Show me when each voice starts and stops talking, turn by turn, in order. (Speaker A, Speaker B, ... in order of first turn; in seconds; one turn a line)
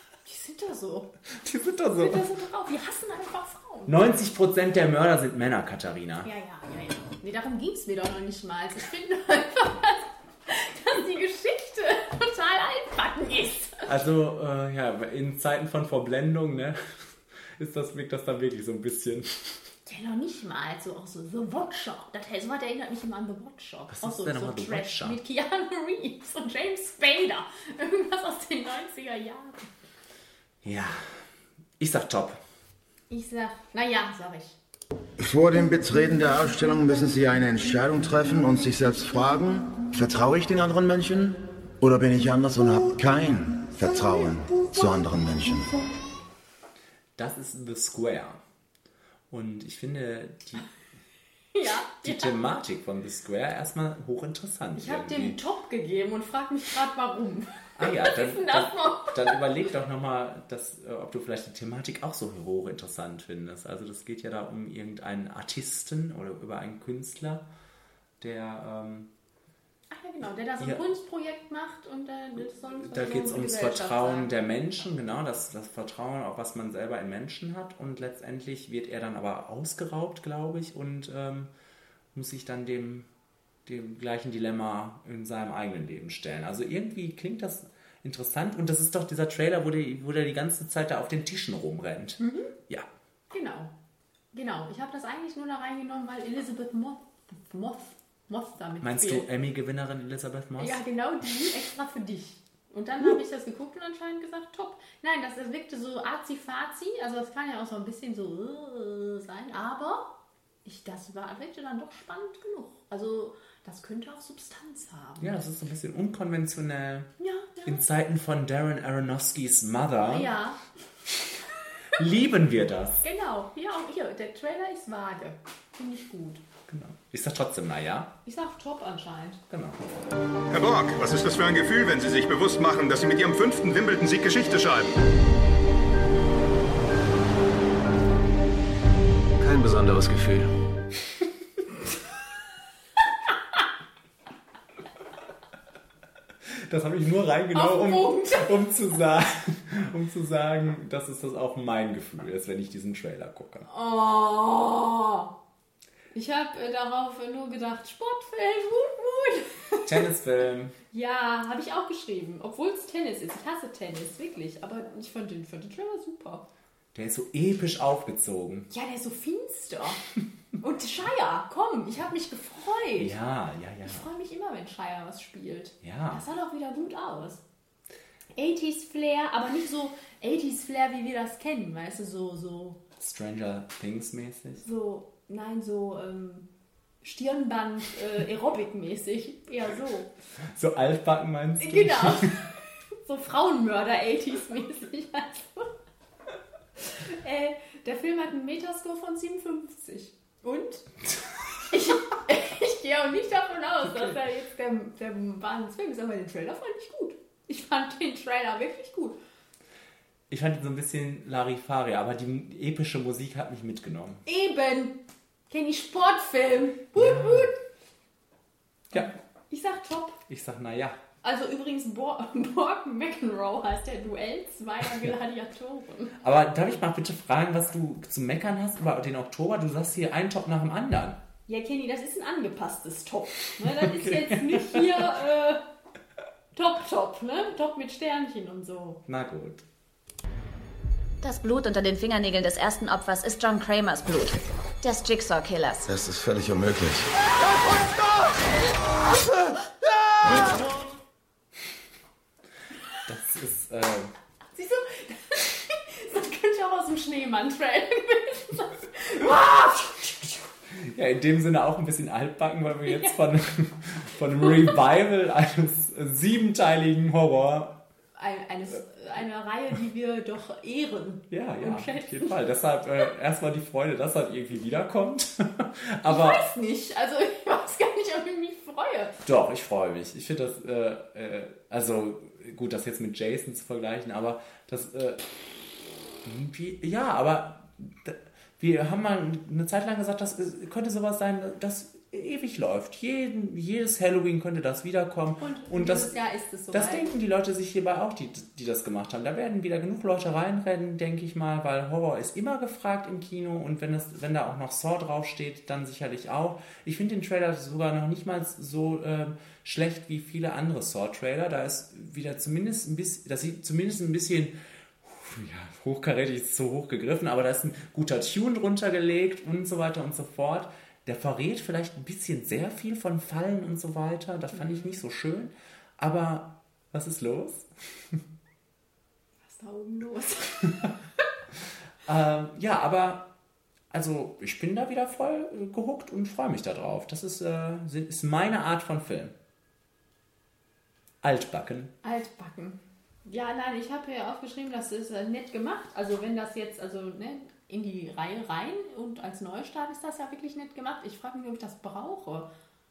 Speaker A: 0.2-1.1
Speaker B: 1.4-2.2
Speaker A: 2.0-4.0
Speaker B: 3.9-6.3
Speaker A: 6.2-13.9
Speaker B: 13.8-19.7
Speaker A: 19.9-29.7
Speaker B: 23.9-25.2
Speaker B: 30.6-32.4
Speaker A: 33.1-34.6
Speaker C: 35.2-45.8
Speaker B: 47.1-48.4
Speaker B: 49.3-50.7
Speaker A: 51.5-52.4
Speaker B: 52.0-55.4
Speaker A: 54.8-59.4
Speaker B: 57.8-67.5
Speaker B: 68.2-69.1
Speaker A: 69.9-74.3
Speaker B: 72.8-81.5
Speaker B: 82.1-83.1
Speaker B: 83.7-92.9
Speaker A: 92.2-92.5
Speaker A: 93.3-93.7
Speaker A: 94.3-99.2
Speaker B: 98.8-100.8
Speaker A: 100.6-110.1
Speaker A: 110.6-115.5
Speaker B: 115.2-117.1
Speaker A: 117.2-117.8
Speaker B: 117.6-120.3
Speaker A: 120.1-120.6
Speaker B: 122.0-123.0
Speaker A: 123.0-126.4
Speaker B: 126.7-128.1
Speaker A: 128.2-129.4
Speaker B: 129.5-129.9
Speaker D: 130.5-134.9
Speaker C: 139.4-140.5
Speaker B: 146.5-153.7
Speaker A: 147.5-148.7
Speaker A: 153.7-155.3
Speaker A: 156.1-160.0
Speaker B: 159.8-160.8
Speaker A: 160.9-166.4
Speaker B: 166.9-168.7
Speaker A: 168.7-170.0
Speaker A: 170.6-173.1
Speaker B: 173.0-174.1
Speaker A: 173.8-177.4
Speaker B: 175.8-176.2
Speaker A: 178.3-182.8
Speaker B: 183.0-184.6
Speaker A: 184.6-186.5
Speaker A: 187.0-190.1
Speaker B: 190.5-192.3
Speaker A: 191.6-195.7
Speaker A: 196.9-200.8
Speaker A: 201.7-209.2
Speaker B: 210.3-214.2
Speaker A: 214.2-217.6
Speaker B: 216.9-217.5
Speaker A: 218.9-220.2
Speaker B: 220.3-221.0
Speaker A: 221.2-226.2
Speaker B: 226.2-231.2
Speaker A: 231.5-235.7
Speaker B: 233.6-235.1
Speaker A: 236.5-239.0
Speaker B: 239.1-239.6
Speaker E: 241.2-244.4
Speaker E: 245.0-245.9
Speaker C: 245.9-247.8
Speaker B: 253.1-254.1
Speaker A: 254.5-260.5
Speaker B: 260.8-267.8
Speaker A: 262.9-263.1
Speaker A: 268.1-272.4
Speaker B: 271.3-276.4
Speaker A: 276.0-279.2
Speaker B: 279.2-285.4
Speaker B: 286.2-296.2
Speaker A: 295.4-297.1
Speaker B: 296.7-328.2
Speaker A: 324.5-324.8
Speaker A: 329.4-330.9
Speaker B: 332.1-333.3
Speaker B: 333.9-339.3
Speaker B: 341.2-341.9
Speaker A: 342.0-352.5